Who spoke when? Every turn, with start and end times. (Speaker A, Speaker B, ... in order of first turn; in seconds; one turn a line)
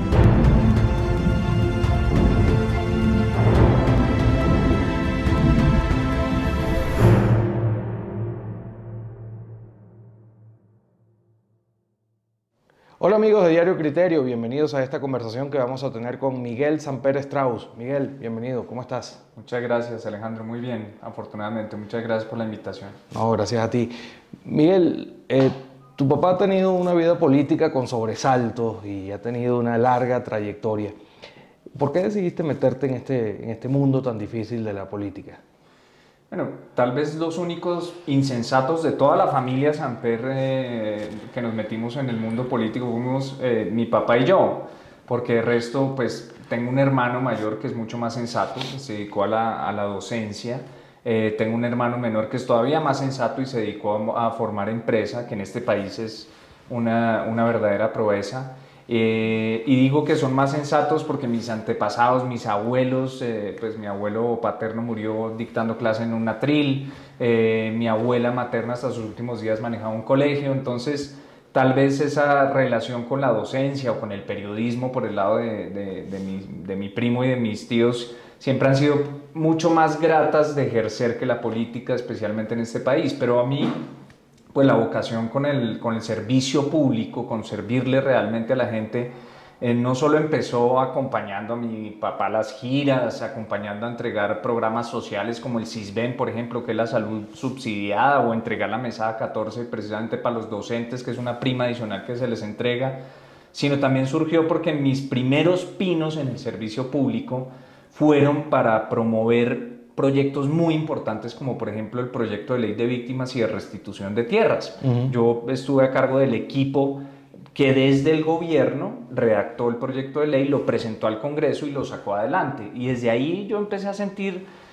Speaker A: 13.0-19.2
Speaker B: 19.4-23.0
Speaker A: 23.1-30.9
Speaker A: 31.8-35.4
Speaker B: 36.3-83.8
Speaker B: 84.5-103.0
Speaker B: 103.5-117.0
Speaker A: 114.8-115.1
Speaker B: 117.5-124.5